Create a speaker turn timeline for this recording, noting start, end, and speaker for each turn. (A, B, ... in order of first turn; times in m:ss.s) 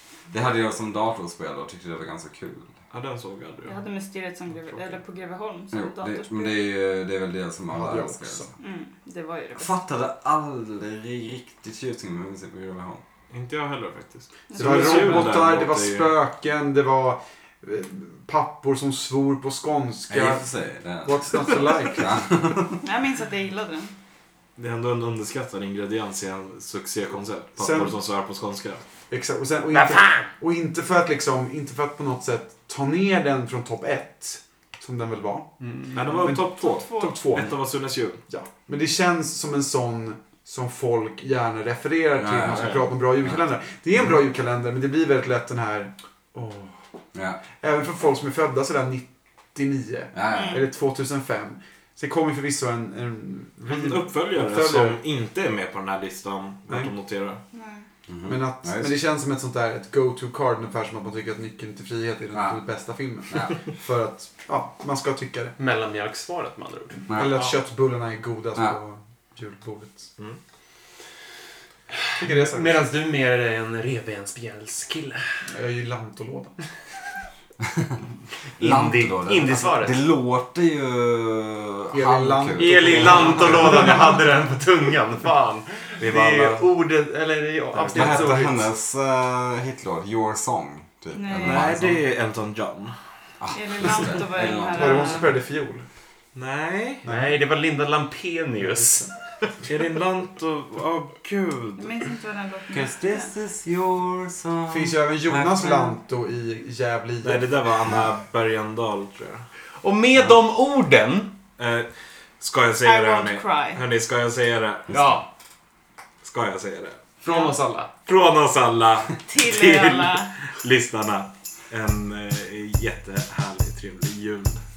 0:00.3-0:02.7 A
0:02.9-0:03.8 B
0:03.6-0:06.6 C
0:04.7-0:05.0 B
0:05.7-0:08.5 A
0:07.7-0:08.5 D
0:08.6-0:09.7 C
0:09.6-0:13.0 A
0:13.3-0:16.1 B
0:14.5-0:15.3 C
0:14.5-0:22.3 D
0:20.1-0:22.8 A
0:22.8-0:23.9 C
0:24.6-0:28.8 B
0:27.6-0:28.0 D
0:29.1-0:35.5 D
0:29.7-0:30.3 E
0:35.6-0:36.0 E
0:35.9-0:38.2 B
0:36.0-0:37.6 D
0:36.1-0:37.2 C
0:38.3-0:46.7 D
0:42.1-0:43.4 A
0:47.1-0:47.4 A
0:47.4-0:55.0 D
0:50.1-0:50.6 A
0:50.3-0:50.6 C
0:53.6-0:57.4 B
0:57.5-0:57.8 C
0:58.1-0:59.0 A
0:58.2-1:05.5 D
1:03.3-1:03.6 A
1:05.6-1:07.5 E
1:07.1-1:10.1 D
1:12.2-1:12.8 D
1:12.2-1:15.4 E
1:15.4-1:16.6 D
1:18.6-1:20.0 E
1:18.6-1:23.8 A
1:21.9-1:24.2 D
1:22.6-1:28.6 E
1:26.0-1:26.7 B
1:27.8-1:28.5 D
1:27.9-1:32.0 A
1:31.1-1:31.7 C
1:31.4-1:33.0 B
1:33.4-1:35.2 A
1:33.5-1:35.3 C
1:34.7-1:35.8 D
1:36.3-1:37.0 B
1:37.0-1:37.4 D
1:37.0-1:39.5 E
1:39.6-1:42.0 B
1:41.8-1:43.3 C
1:42.7-1:45.9 A
1:44.7-1:47.5 D
1:47.2-1:49.4 B
1:49.8-1:51.4 E
1:51.6-1:54.9 B
1:52.8-1:53.8 C
1:54.9-1:55.2 A
1:54.9-1:55.2 E
1:56.2-1:57.0 B
1:57.2-1:57.9 E
1:57.2-1:57.5 C
1:58.0-2:04.6 B
1:59.3-2:00.3 C